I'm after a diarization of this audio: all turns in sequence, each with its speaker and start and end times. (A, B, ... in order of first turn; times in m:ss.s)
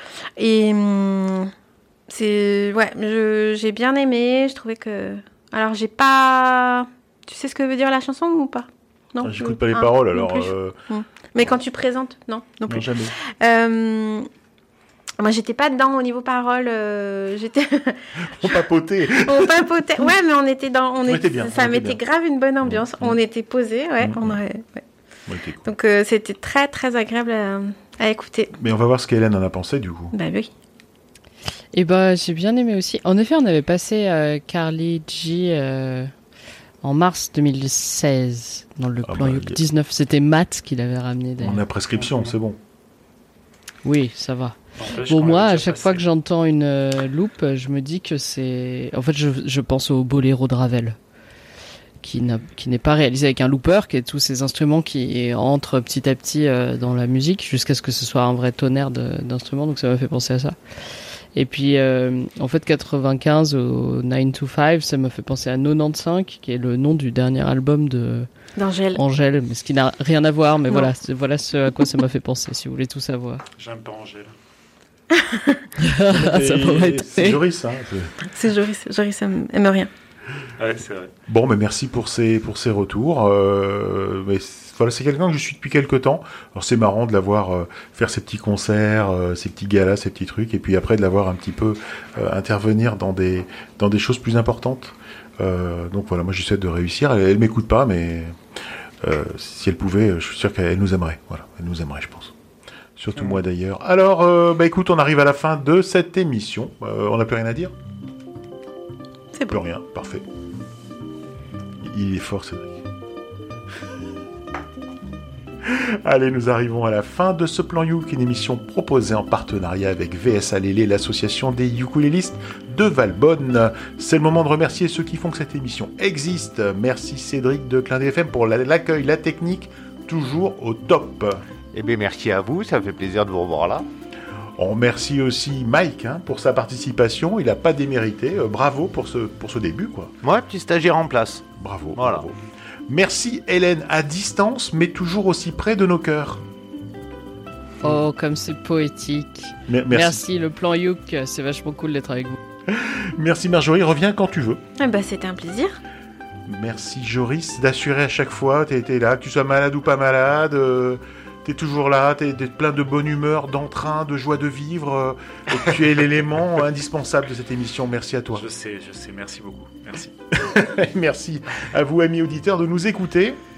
0:00.4-0:01.5 A
0:02.1-0:14.3 A
0:09.2-0:10.8 B
0:12.7-0:13.1 B
0:15.2-0:18.6 A
0:18.2-0:20.0 B
0:19.1-0:24.8 A
0:21.0-0:22.0 B
0:22.6-0:23.2 B
0:24.0-0:24.4 B
0:25.3-0:25.7 B
0:25.6-0:28.5 A
0:28.5-0:30.1 B
0:30.1-0:30.5 A
0:31.7-0:36.1 C
0:36.8-0:41.6 C
0:39.0-0:39.6 B
0:41.4-0:42.6 B
0:42.0-0:42.3 D
0:43.8-0:51.0 C
0:44.8-0:46.0 D
0:52.0-1:00.5 C
1:01.3-1:08.3 C
1:08.6-1:09.0 A
1:08.9-1:13.4 C
1:13.6-1:14.3 D
1:15.1-1:15.6 A
1:15.8-1:17.4 C
1:16.1-1:18.2 B
1:18.2-1:19.9 A
1:20.6-1:21.1 D
1:21.3-1:38.3 B
1:39.0-1:42.3 B
1:43.0-1:47.7 B
1:49.3-1:49.6 A
1:49.5-1:50.2 B
1:51.8-1:52.8 B
1:55.6-2:11.4 B
2:11.7-2:13.8 E
2:14.6-2:20.1 B
2:20.2-2:22.2 E
2:21.6-2:22.4 B
2:22.9-2:26.4 B
2:27.8-2:32.4 C
2:29.7-2:30.2 B
2:32.7-2:34.6 B
2:34.8-2:35.8 A
2:36.5-2:48.4 B
2:48.3-2:50.1 D
2:50.3-2:53.4 B